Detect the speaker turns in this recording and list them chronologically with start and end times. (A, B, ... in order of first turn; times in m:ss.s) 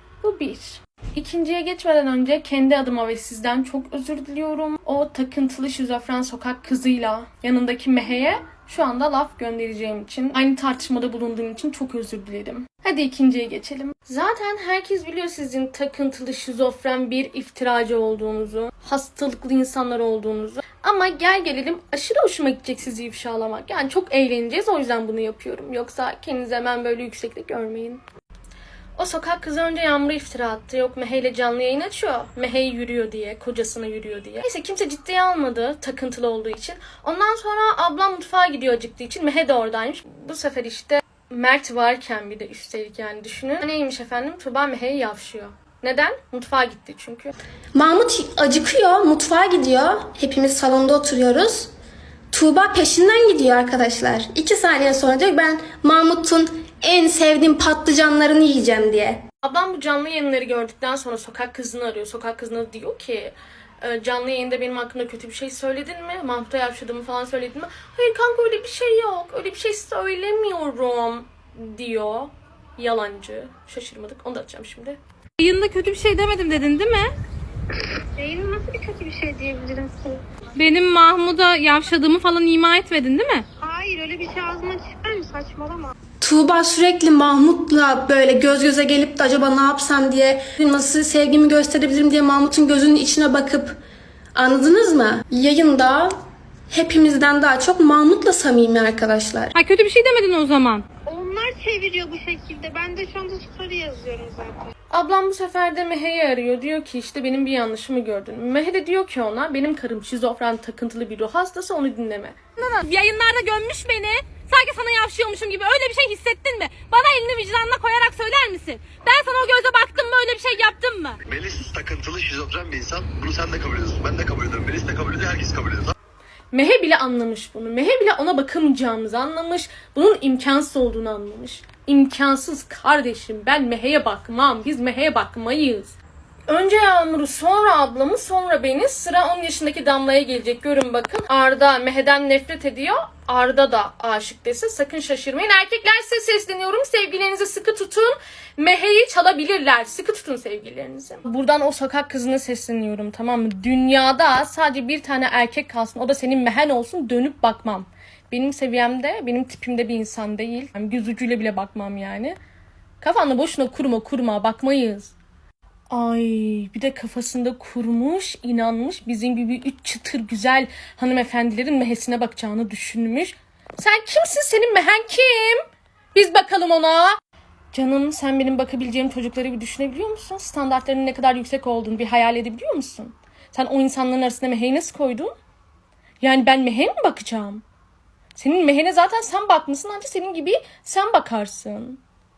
0:00.2-0:28.0 A
0:29.0-0:47.3 A
0:47.8-0:51.7 B
0:52.3-0:59.2 B
0:59.4-1:15.0 A
1:15.4-1:17.1 C
1:17.9-1:20.4 D
1:20.6-1:23.5 C
1:23.6-1:25.9 D
1:26.2-1:33.8 B
1:34.4-1:36.2 B
1:36.7-1:39.6 B
1:39.6-1:40.8 C
1:41.1-1:44.7 D
1:44.9-1:52.8 A
1:52.7-2:01.2 C
2:01.3-2:05.9 E
2:06.5-2:16.0 A
2:16.5-2:42.4 A
2:43.0-2:45.1 A
2:45.9-2:55.6 A
2:56.2-2:57.2 A
2:57.7-3:05.3 A
3:06.2-3:07.6 A
3:08.4-3:12.0 A